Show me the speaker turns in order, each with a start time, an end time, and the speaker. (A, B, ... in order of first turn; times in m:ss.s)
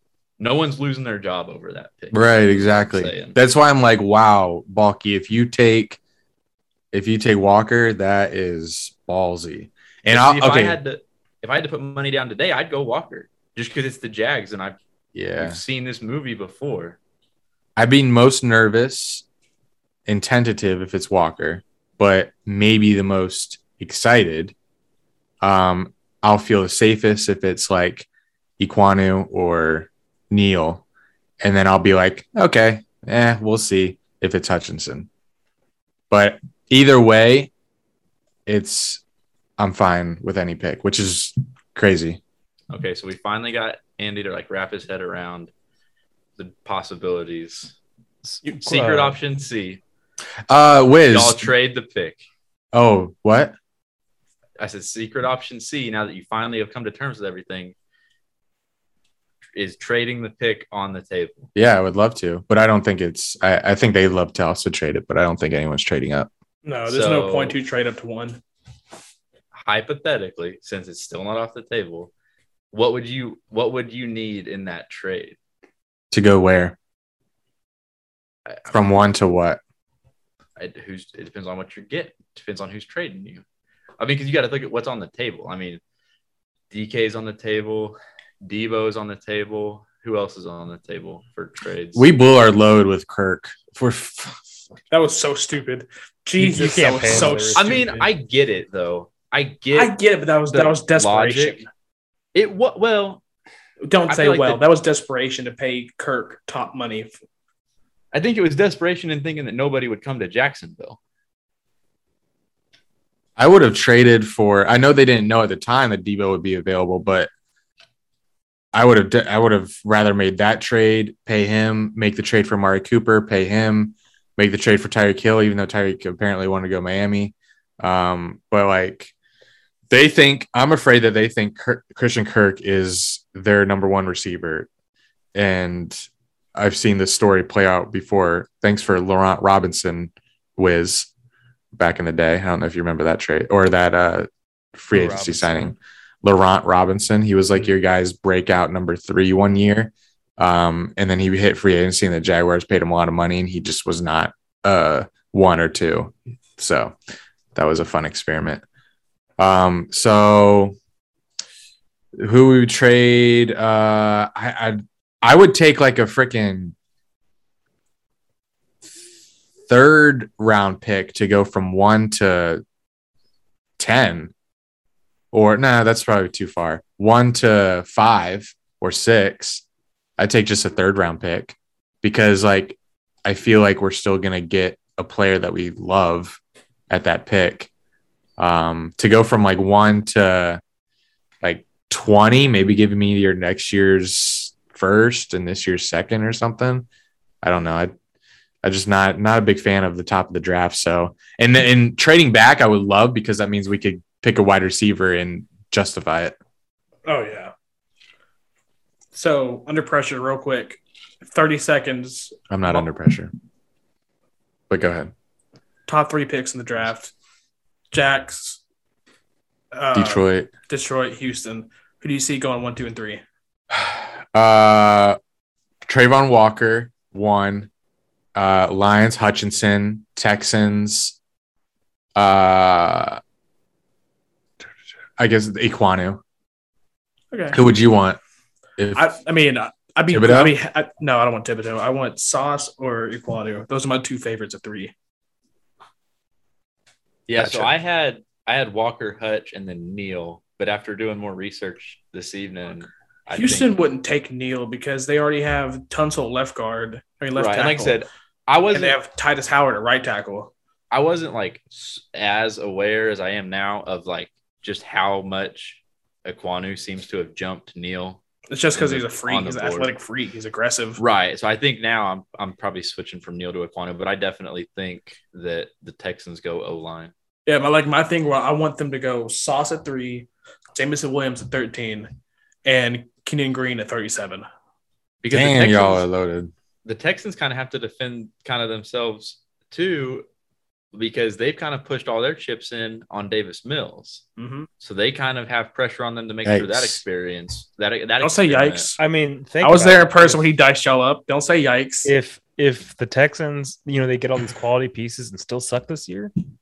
0:00.4-0:03.4 A
0:02.1-0:06.0 B
0:06.9-0:10.8 B
0:10.1-0:14.8 A
0:15.2-0:15.6 B
0:15.4-0:17.0 A
0:17.8-0:19.2 B
0:20.1-0:24.5 B
0:25.4-0:28.1 B
0:28.6-0:30.8 B
0:31.4-0:35.1 B
0:36.1-0:37.5 B
0:38.5-0:39.0 B
0:39.6-0:42.2 B
0:42.7-0:45.5 A
0:46.4-0:47.7 A
0:48.2-0:49.2 C
0:48.6-0:49.8 A
0:50.5-0:51.5 B
0:51.1-0:52.2 A
0:52.7-0:53.6 B
0:54.6-0:57.8 A
0:59.6-1:01.5 A
1:01.6-1:06.3 B
1:06.6-1:08.4 D
1:06.9-1:07.6 A
1:09.5-1:12.1 A
1:12.7-1:15.4 A
1:16.1-1:16.8 B
1:18.7-1:19.6 B
1:20.6-1:23.4 A
1:24.0-1:25.8 A
1:26.7-1:32.1 A
1:32.0-1:34.6 B
1:34.9-1:38.0 D
1:36.4-1:37.8 C
1:37.6-1:40.0 A
1:39.7-1:41.7 D
1:40.5-1:41.6 A
1:42.3-1:43.2 A
1:43.9-1:47.1 D
1:44.1-1:44.6 A
1:48.1-1:51.0 A
1:53.4-1:57.3 B
1:58.7-2:09.1 B
2:09.9-2:14.7 B
2:15.4-2:16.0 B
2:16.6-2:21.1 B
2:21.7-2:37.0 B
2:24.9-2:25.7 C
2:37.6-2:38.6 B
2:39.4-2:40.8 B
2:42.2-2:46.7 B
2:49.7-2:52.6 B
2:53.8-2:54.3 B
2:55.3-2:59.6 B
3:00.2-3:06.4 B
3:06.9-3:07.7 B
3:08.4-3:10.6 B
3:11.4-3:16.9 B
3:17.4-3:17.9 B
3:18.6-3:26.4 B
3:27.1-3:27.5 D
3:29.1-3:32.9 D
3:32.5-3:33.3 B
3:34.7-3:35.1 B
3:35.9-3:37.1 D
3:37.9-3:38.6 D
3:39.7-3:43.2 D
3:39.9-3:40.5 B
3:43.7-3:45.2 B
3:45.8-3:47.7 B
3:48.4-3:51.2 B
3:52.2-3:53.2 B
3:55.2-3:56.2 B
3:57.3-3:57.6 D
3:57.5-3:58.2 B
3:58.8-3:59.1 B
3:59.0-4:04.9 D
4:00.1-4:00.6 B
4:07.3-4:13.8 A
4:07.4-4:07.7 B
4:13.3-4:18.0 D
4:17.4-4:19.0 A
4:18.7-4:20.5 D
4:20.9-4:28.2 A
4:28.5-4:31.0 D
4:28.7-4:29.9 A
4:31.0-4:37.1 A
4:37.5-4:42.1 D
4:42.6-4:44.5 D
4:45.2-4:46.1 A
4:45.3-4:46.5 B
4:46.8-4:50.2 A
4:50.9-4:54.2 A
4:54.4-4:54.7 D
4:54.8-4:58.9 A
4:56.4-4:57.0 B
4:58.2-4:59.0 D
4:59.0-5:00.4 C
4:59.6-5:02.1 D
5:02.0-5:06.3 C